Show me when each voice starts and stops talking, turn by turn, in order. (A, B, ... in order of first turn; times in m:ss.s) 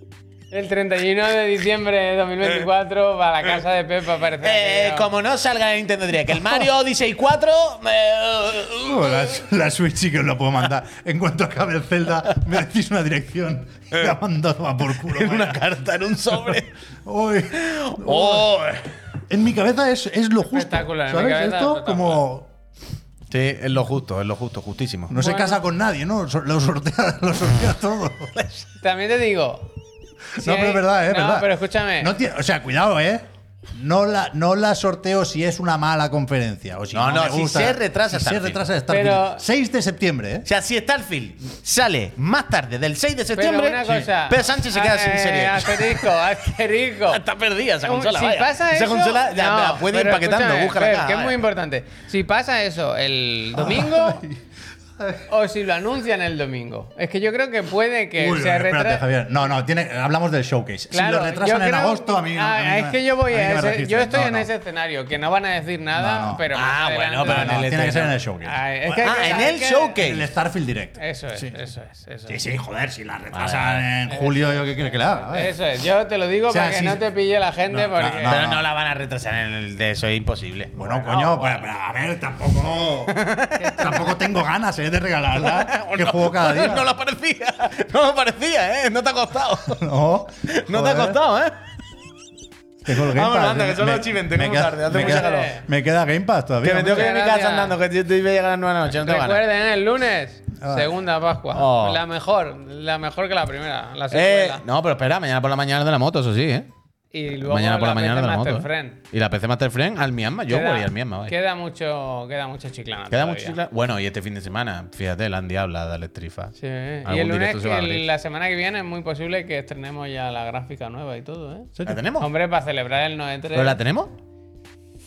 0:00.5-0:05.1 A
0:04.4-0:09.4 B
0:08.8-0:15.6 C
0:15.0-0:16.7 B
0:16.3-0:18.6 C
0:17.5-0:19.0 B
0:19.3-0:22.5 C
0:20.5-0:22.2 A
0:23.3-0:25.1 B
0:25.1-0:28.3 C
0:25.1-0:25.6 A
0:28.4-0:28.6 B
0:28.8-0:29.7 A
0:30.4-0:40.5 C
0:30.4-0:32.1 A
0:36.9-0:38.6 B
0:38.9-0:39.4 A
0:40.4-0:46.2 B
0:43.3-0:47.2 A
0:47.1-0:51.4 B
0:47.8-0:54.2 A
0:53.5-0:54.4 C
0:55.0-0:55.3 C
0:55.3-0:59.0 A
0:58.2-1:04.5 C
1:00.9-1:07.6 A
1:06.0-1:06.4 C
1:06.5-1:08.2 B
1:07.2-1:11.6 C
1:08.4-1:10.0 A
1:09.0-1:10.3 B
1:11.0-1:12.4 A
1:12.3-1:15.5 C
1:13.3-1:13.8 B
1:14.1-1:18.4 A
1:16.5-1:17.0 C
1:17.7-1:18.6 C
1:18.2-1:21.0 B
1:20.7-1:26.9 C
1:20.8-1:21.6 A
1:23.1-1:24.1 B
1:25.4-1:29.8 B
1:29.7-1:31.2 C
1:30.4-1:31.6 B
1:32.8-1:37.1 C
1:32.9-1:35.6 B
1:34.9-1:35.6 A
1:36.6-1:39.4 B
1:36.8-1:37.8 A
1:38.9-1:44.6 A
1:40.6-1:40.9 C
1:41.5-1:42.0 B
1:44.1-1:46.7 B
1:47.1-1:49.0 A
1:47.4-1:51.3 B
1:50.5-1:53.6 A
1:53.1-1:58.0 B
1:56.6-2:03.8 A
2:01.8-2:02.3 B
2:03.5-2:04.1 B